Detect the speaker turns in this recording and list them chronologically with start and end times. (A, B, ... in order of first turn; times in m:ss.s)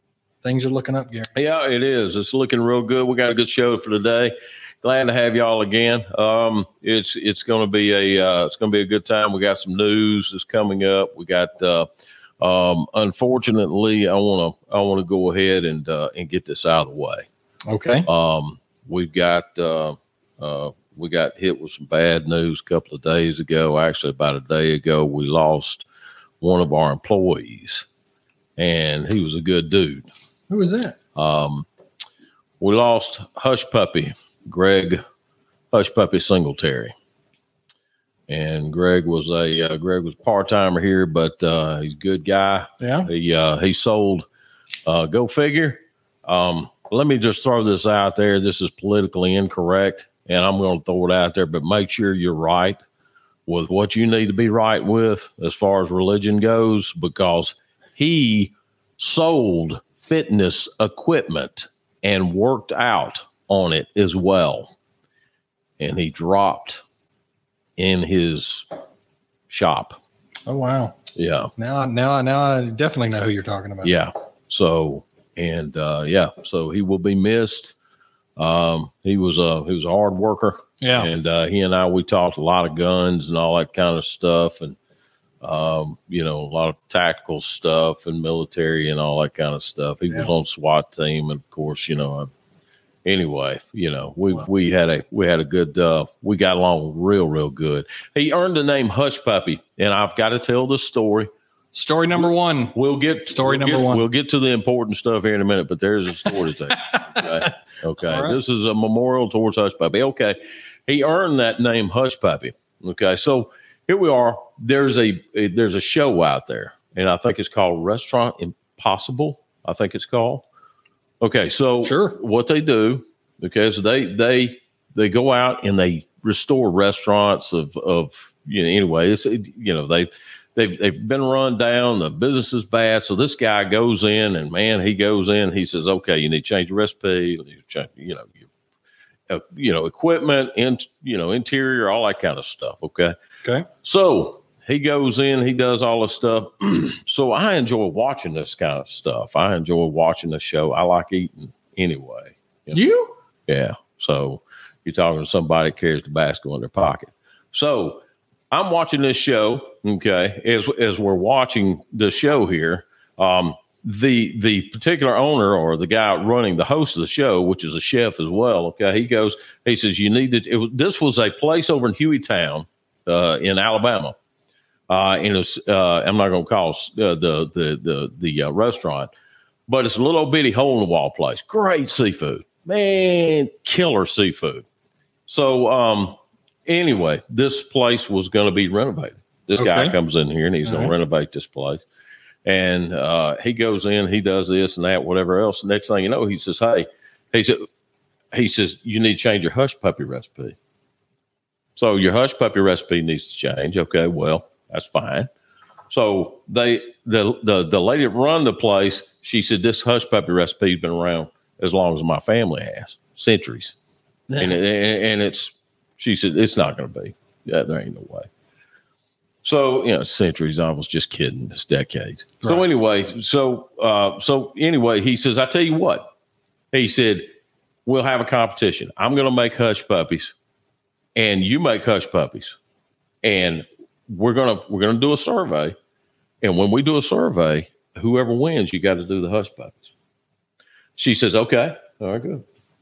0:00.4-0:01.4 A
0:01.4-0:11.9 B
0:12.4-0:17.3 B
0:17.7-0:18.1 A
0:18.1-0:25.8 B
0:26.4-0:27.8 B
0:28.6-0:30.1 B
0:30.5-0:31.0 A
0:31.1-0:31.7 B
0:32.6-0:35.0 B
0:35.7-0:36.9 B
0:38.3-0:44.3 B
0:42.8-0:43.1 A
0:44.8-0:52.8 B
0:53.4-1:04.7 B
1:05.8-1:06.8 B
1:07.8-1:08.7 B
1:09.5-1:10.0 B
1:10.5-1:11.0 A
1:11.1-1:11.5 B
1:11.6-1:13.9 A
1:13.8-1:17.7 B
1:18.4-1:24.8 B
1:20.8-1:21.1 A
1:25.4-1:32.3 B
1:33.0-1:41.3 B
1:41.7-1:42.8 A
1:42.2-2:00.4 B
1:43.3-1:44.0 A
1:46.7-1:47.5 A
1:48.0-1:48.4 A
2:01.2-2:18.5 B
2:01.8-2:02.2 A
2:19.3-2:23.2 B
2:23.8-2:32.8 B
2:32.7-2:33.2 A
2:33.5-2:54.2 B
2:54.9-2:59.1 B
2:59.7-3:04.6 B
3:05.3-3:11.8 B
3:09.6-3:10.0 A
3:10.6-3:10.9 A
3:12.4-3:17.6 B
3:18.3-3:20.6 B
3:21.8-3:25.3 B
3:25.9-3:33.7 B
3:34.3-3:34.6 A
3:34.4-3:38.3 B
3:39.4-3:46.1 B
3:46.7-3:47.3 B
3:47.8-3:50.3 B
3:51.2-3:52.6 B
3:53.2-3:55.8 B
3:56.4-3:59.9 B
4:01.0-4:02.4 B